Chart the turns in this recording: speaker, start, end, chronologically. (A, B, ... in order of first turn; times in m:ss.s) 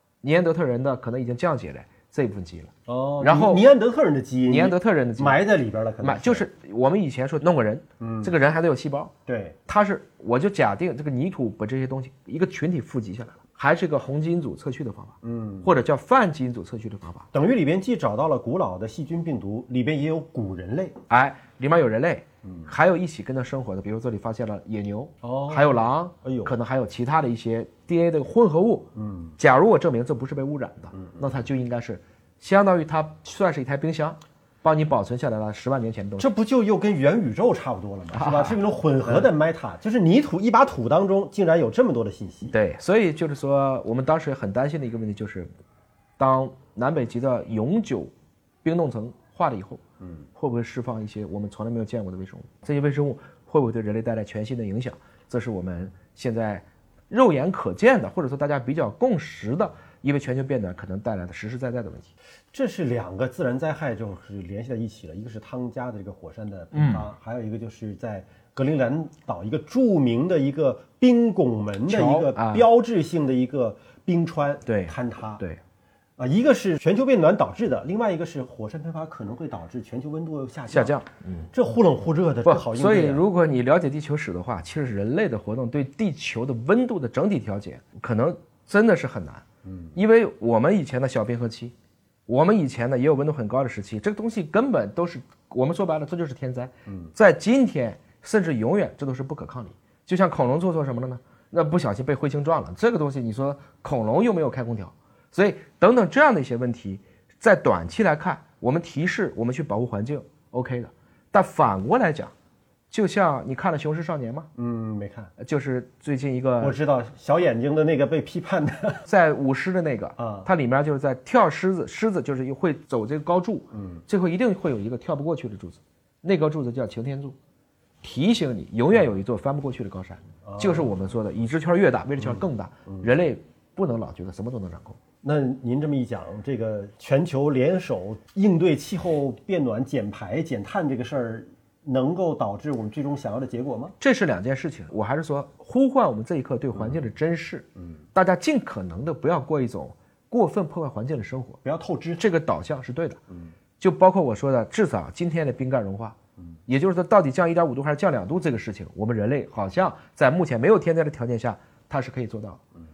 0:00.2-0:03.7 A
0:02.9-0:06.5 B
0:04.5-0:05.4 A
0:06.0-0:09.1 A
0:08.0-0:08.3 B
0:09.3-0:09.6 B
0:09.7-0:17.3 A
0:15.2-0:15.7 B
0:17.3-0:21.0 B
0:21.1-0:36.3 A
0:25.2-0:26.5 B
0:29.0-0:29.3 B
0:36.2-0:42.6 B
0:38.1-0:39.3 A
0:42.5-0:45.5 A
0:46.2-0:48.1 A
0:48.6-0:49.8 A
0:50.4-1:02.1 A
1:02.5-1:15.4 B
1:06.7-1:07.1 A
1:11.9-1:12.7 A
1:14.7-1:15.6 A
1:16.2-1:21.0 B
1:20.7-1:21.5 A
1:21.5-1:23.2 B
1:22.4-1:29.4 A
1:30.0-1:31.7 A
1:32.3-1:52.3 A
1:52.9-1:54.5 A
1:54.6-1:55.3 B
1:55.4-1:56.8 A
1:56.6-1:59.0 B
1:59.1-2:07.4 A
2:00.2-2:00.5 B
2:03.8-2:04.0 B
2:08.0-2:15.0 A
2:10.4-2:10.9 B
2:12.2-2:13.1 B
2:15.2-2:24.0 B
2:24.0-2:31.6 A
2:26.7-2:27.0 B
2:31.6-2:32.2 B
2:32.2-2:33.2 A
2:33.8-2:36.2 A
2:36.7-2:42.6 A